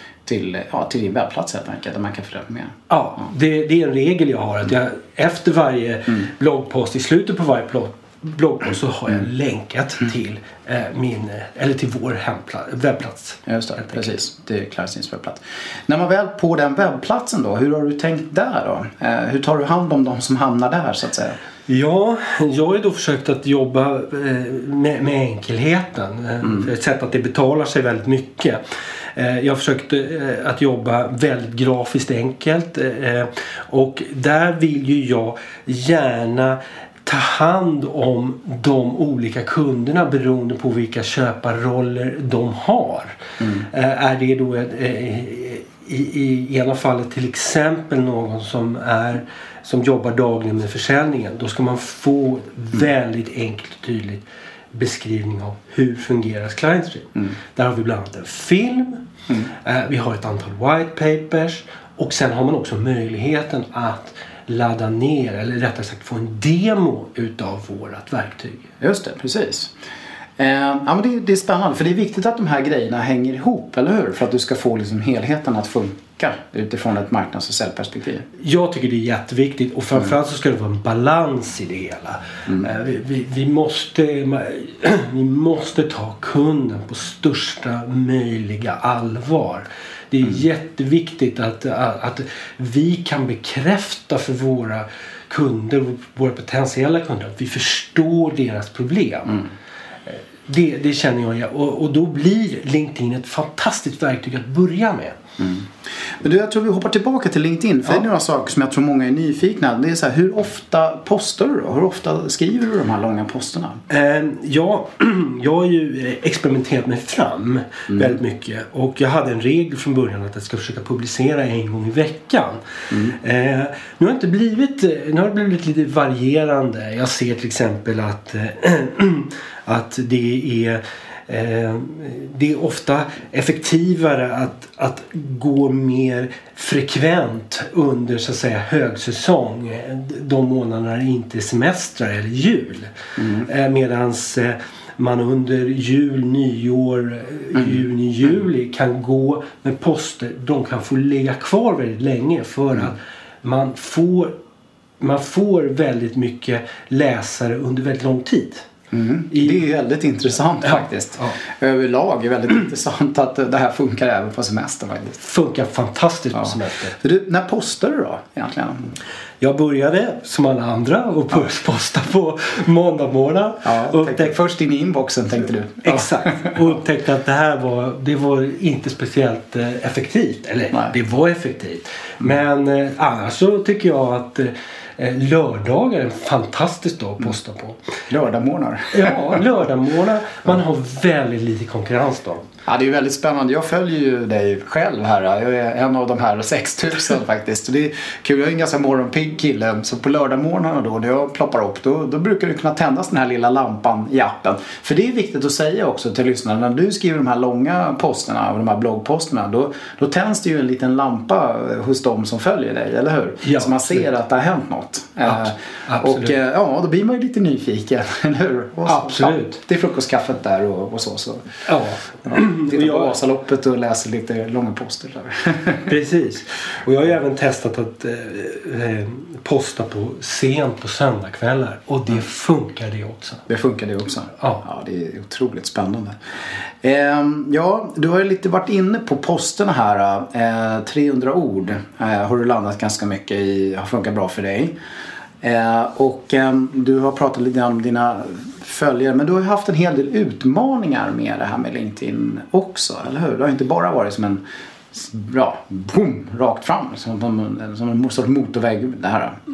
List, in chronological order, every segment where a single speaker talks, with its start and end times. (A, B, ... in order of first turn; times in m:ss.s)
0:00.3-0:02.8 A
0:02.9-0:14.1 B
0:13.5-0:21.4 A
0:21.7-0:28.6 B
0:29.2-0:43.2 B
0:43.4-0:43.7 A
0:43.7-0:59.0 B
0:59.6-1:08.6 B
1:08.8-1:09.7 A
1:10.4-1:18.3 A
1:18.4-1:39.4 B
1:40.1-1:45.2 B
1:45.4-1:53.8 A
1:53.9-2:02.6 B
1:57.9-1:58.2 A
2:03.1-2:34.3 B
2:23.2-2:23.5 A
2:35.0-2:38.7 B
2:38.9-2:45.2 A
2:40.6-2:41.4 B
2:45.2-2:47.0 B
2:46.4-2:49.0 A
2:49.4-2:54.4 B
2:53.6-2:56.6 A
2:55.8-3:07.8 B
3:08.1-3:09.4 A
3:08.9-3:12.5 B
3:12.7-3:41.6 A
3:33.4-3:34.1 B
3:35.2-3:36.3 B
3:38.8-3:39.6 B
3:41.7-3:43.1 B
3:42.2-3:45.9 A
3:45.9-3:53.4 B
3:53.5-3:56.2 A
3:56.8-4:04.7 A
4:05.4-4:19.4 A